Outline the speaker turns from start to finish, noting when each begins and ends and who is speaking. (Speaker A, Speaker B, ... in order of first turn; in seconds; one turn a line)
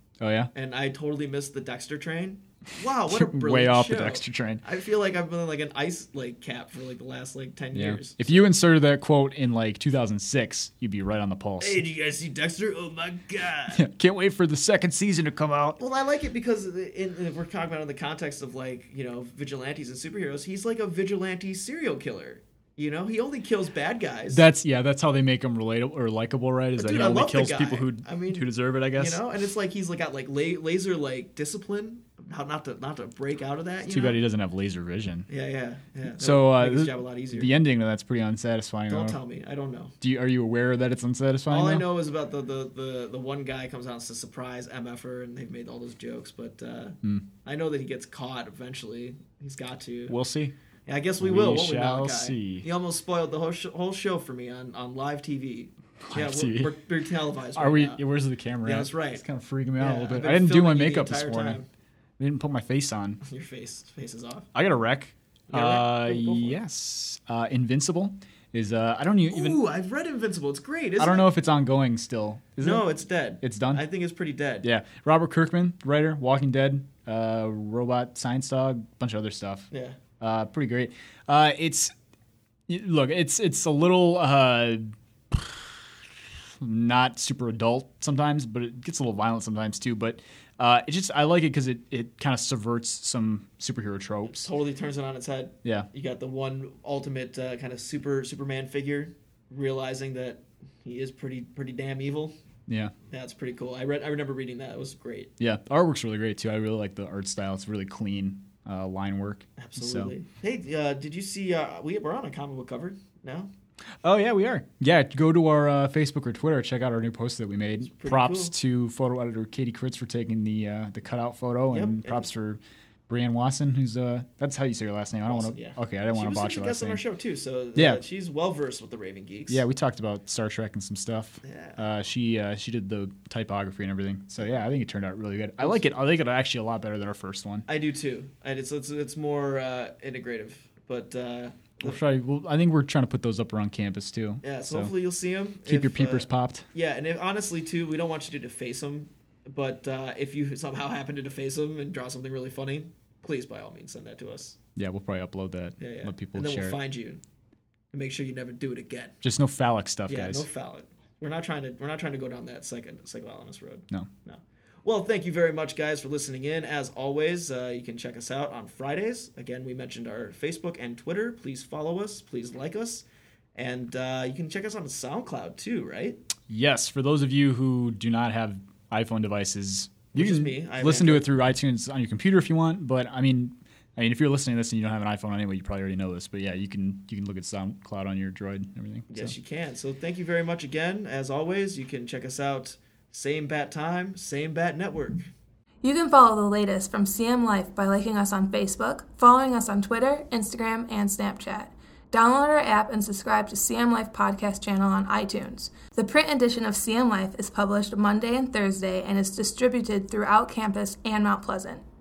Speaker A: 0.2-0.5
Speaker B: 0.5-8.5
Speaker A: 3.1-4.6
Speaker A: 7.7-11.8
Speaker B: 11.6-13.8
Speaker A: 13.7-15.8
Speaker B: 15.8-24.4
Speaker A: 24.3-29.2
Speaker B: 26.8-34.2
Speaker A: 33.9-35.3
Speaker B: 35.3-37.5
Speaker A: 36.1-39.2
Speaker B: 38.9-39.9
Speaker A: 40.0-41.9
Speaker B: 41.5-50.2
Speaker A: 47.0-47.3
Speaker A: 50.1-50.5
Speaker B: 50.9-58.0
Speaker A: 51.2-52.7
Speaker A: 56.0-56.8
Speaker A: 57.5-61.6
Speaker B: 58.6-59.2
Speaker B: 59.8-61.7
Speaker A: 62.2-63.2
Speaker B: 63.2-64.5
Speaker A: 64.5-69.6
Speaker B: 65.5-66.6
Speaker B: 69.3-71.3
Speaker A: 71.0-72.9
Speaker B: 72.6-74.7
Speaker A: 73.4-73.9
Speaker A: 74.6-79.7
Speaker B: 79.7-80.0
Speaker A: 80.2-81.9
Speaker A: 82.7-86.0
Speaker A: 86.6-94.5
Speaker B: 94.3-102.3
Speaker A: 95.6-95.9
Speaker A: 102.7-102.9
Speaker B: 103.1-105.3
Speaker A: 105.4-110.1
Speaker B: 109.6-113.5
Speaker A: 114.0-127.0
Speaker B: 117.8-118.5
Speaker B: 121.7-122.3
Speaker B: 125.2-129.6
Speaker A: 127.7-128.0
Speaker A: 129.5-137.7
Speaker B: 131.4-131.8
Speaker B: 137.7-142.0
Speaker A: 141.8-144.9
Speaker B: 144.4-154.6
Speaker A: 145.7-146.7
Speaker A: 154.8-156.8
Speaker B: 155.8-157.2
Speaker B: 157.9-159.2
Speaker A: 159.2-160.5
Speaker B: 160.1-176.2
Speaker A: 176.5-189.3
Speaker B: 180.1-181.3
Speaker B: 189.1-195.3
Speaker C: 195.8-211.8